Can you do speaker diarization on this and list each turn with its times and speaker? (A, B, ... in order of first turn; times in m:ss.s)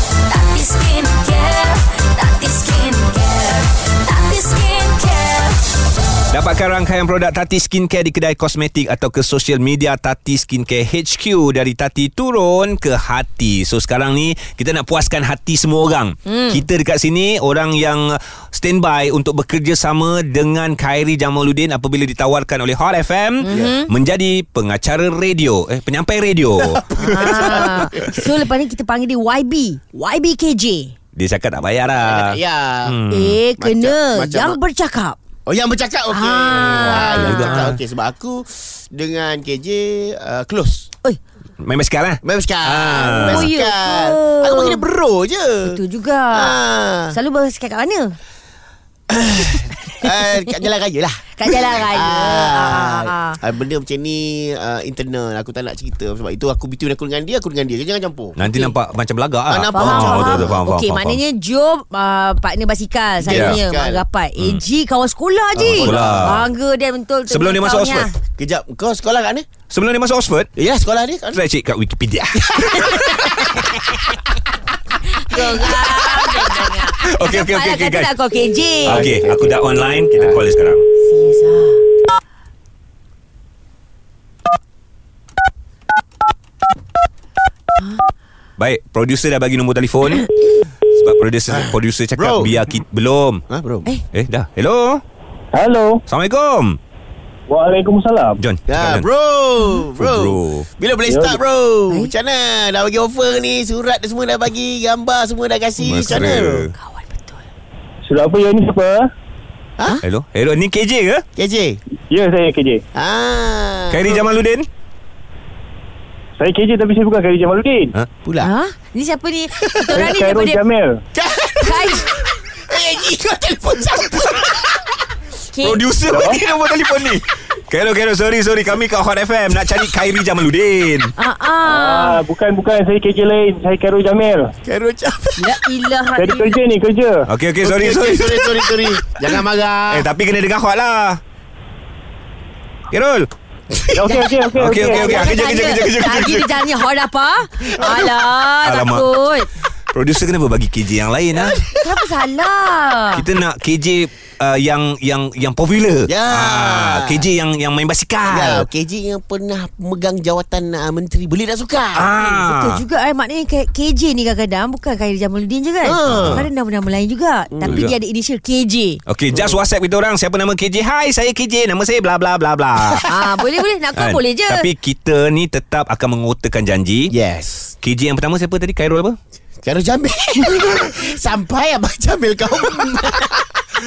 0:00.3-0:05.5 A
0:06.3-0:28.0 B
0:16.2-0:16.6 C
0:23.4-0:23.9 C
0:23.5-0:23.8 D
0:26.6-0:28.2 D
0:27.0-0:30.9 C
0:31.2-0:33.4 B
0:31.9-0:33.0 D
0:33.1-0:35.2 C
0:33.6-0:34.6 D
0:35.4-0:40.9 D
0:36.1-0:37.7 C
0:36.6-0:37.8 B
0:41.6-0:43.5 B
0:42.2-0:47.2 D
0:43.0-0:44.8 C
0:45.6-0:46.6 C
0:47.1-0:48.2 C
0:49.1-0:58.4 D
0:51.4-0:53.4 C
0:58.4-1:01.2 B
0:58.4-0:58.7 C
0:59.5-1:00.6 D
0:59.7-1:08.1 C
1:03.2-1:04.0 D
1:03.2-1:03.6 B
1:04.4-1:04.6 B
1:05.5-1:06.5 D
1:05.6-1:06.4 B
1:07.3-1:08.1 B
1:08.4-1:09.5 D
1:09.7-1:10.5 B
1:10.6-1:11.4 D
1:11.3-1:13.2 B
1:12.4-1:13.7 D
1:12.9-1:13.3 C
1:15.0-1:19.1 C
1:15.3-1:16.5 D
1:17.0-1:18.1 B
1:18.8-1:20.4 D
1:18.8-1:20.8 B
1:21.0-1:21.8 C
1:28.6-1:30.3 B
1:30.9-1:33.4 B
1:31.5-1:32.5 D
1:33.5-1:33.9 D
1:34.1-1:35.0 B
1:35.5-1:36.0 E
1:36.1-1:36.8 B
1:37.5-1:38.4 E
1:38.4-1:39.1 B
1:38.7-1:46.7 D
1:40.0-1:40.7 B
1:41.1-1:41.4 E
1:45.8-1:46.7 B
1:46.1-1:47.4 C
1:48.0-1:49.1 E
1:50.0-1:51.2 B
1:51.4-1:51.8 D
1:52.1-1:52.8 E
1:52.9-1:54.2 D
1:53.9-1:54.7 B
1:56.4-1:57.9 E
1:58.2-1:58.5 D
1:58.4-2:00.6 C
1:59.9-2:01.0 E
2:01.1-2:04.8 D
2:01.6-2:02.1 C
2:05.4-2:05.8 C
2:05.6-2:11.1 B
2:06.0-2:06.4 E
2:11.2-2:12.2 C
2:11.6-2:14.5 E
2:14.6-2:15.6 D
2:15.4-2:16.6 C
2:16.1-2:17.2 E
2:17.3-2:21.2 B
2:17.6-2:20.1 D
2:22.9-2:23.3 B
2:23.7-2:24.8 D
2:23.9-2:25.2 E
2:24.6-2:26.5 B
2:24.9-2:29.5 C
2:27.8-2:28.0 D
2:28.6-2:29.1 B
2:29.9-2:31.6 B
2:31.3-2:32.0 D
2:31.8-2:33.2 C
2:33.1-2:38.7 B
2:36.1-2:37.3 D
2:38.3-2:42.1 D
2:41.9-2:42.8 B
2:42.2-2:49.0 C
2:45.8-2:46.5 D
2:46.1-2:46.5 B
2:47.5-2:47.8 D
2:47.6-2:47.9 B
2:49.1-2:53.1 B
2:49.3-2:49.6 D
2:53.0-2:54.6 C
2:54.0-2:57.1 B
2:57.1-2:57.7 D
2:57.8-2:59.2 B
2:59.6-3:03.6 D